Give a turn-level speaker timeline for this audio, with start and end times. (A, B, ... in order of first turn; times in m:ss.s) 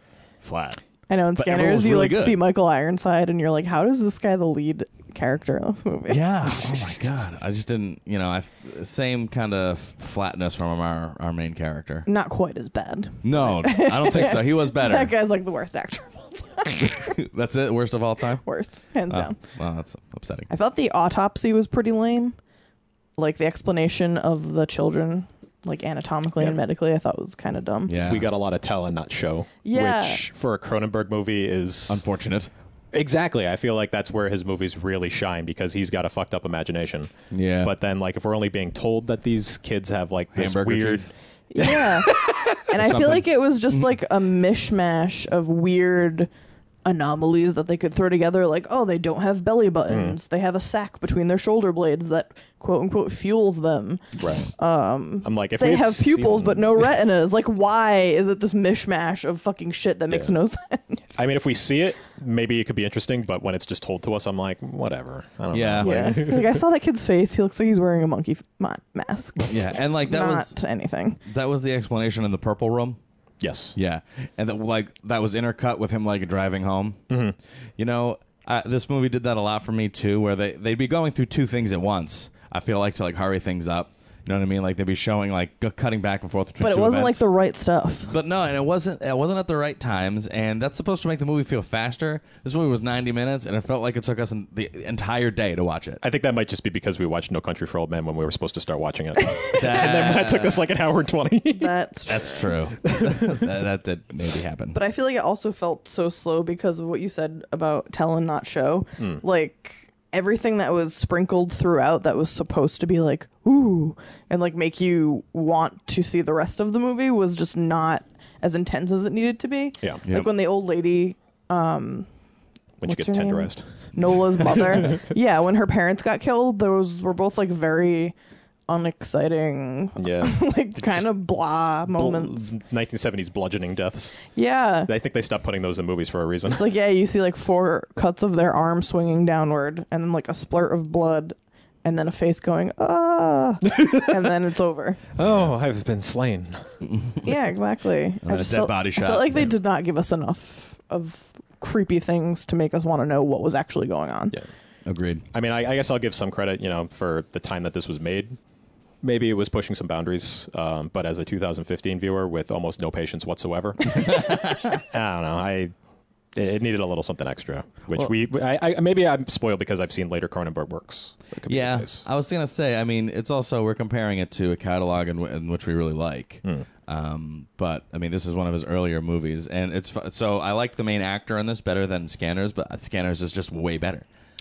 0:00.4-0:00.8 A
0:01.1-0:06.2 B
0:01.4-0:02.4 A
0:06.1-0:12.1 A
0:12.1-0:17.2 B
0:13.2-0:15.2 A
0:16.8-0:18.5 A
0:18.4-0:19.4 B
0:19.1-0:20.5 A
0:20.5-0:22.4 B
0:23.2-0:27.9 B
0:27.9-0:28.3 A
0:28.0-0:32.0 C
0:29.6-0:30.2 B
0:31.9-0:32.5 A
0:32.9-0:41.1 C
0:37.3-0:37.7 A
0:40.3-0:41.1 A
0:41.5-0:46.3 B
0:42.8-0:44.0 A
0:46.8-1:01.2 B
0:49.9-0:50.2 C
0:54.2-0:54.5 C
0:55.2-0:56.9 C
1:01.2-1:06.6 C
1:05.5-1:06.2 A
1:05.8-1:11.2 B
1:09.5-1:10.6 A
1:11.2-1:13.0 A
1:13.4-1:13.8 C
1:13.8-1:17.0 A
1:17.1-1:17.4 C
1:17.8-1:27.3 A
1:26.6-1:28.1 B
1:28.1-1:36.0 A
1:36.0-1:41.7 C
1:39.6-1:40.6 A
1:41.5-1:42.5 B
1:42.1-1:44.8 A
1:42.9-1:43.5 C
1:44.7-2:02.1 B
1:49.0-1:49.2 C
2:00.1-2:00.4 A
2:02.8-2:05.0 C
2:02.8-2:08.2 B
2:08.7-2:12.5 B
2:10.0-2:11.1 C
2:11.9-2:14.3 C
2:14.4-2:14.9 B
2:14.9-2:16.6 C
2:16.5-2:25.0 B
2:23.7-2:24.1 C
2:25.2-2:26.8 C
2:25.2-2:25.5 A
2:26.8-2:27.3 A
2:27.2-2:34.4 B
2:28.2-2:29.6 A
2:34.8-2:35.3 A
2:35.3-2:38.4 C
2:39.0-2:45.7 C
2:44.0-2:44.8 A
2:46.4-2:52.0 C
2:51.5-3:04.1 A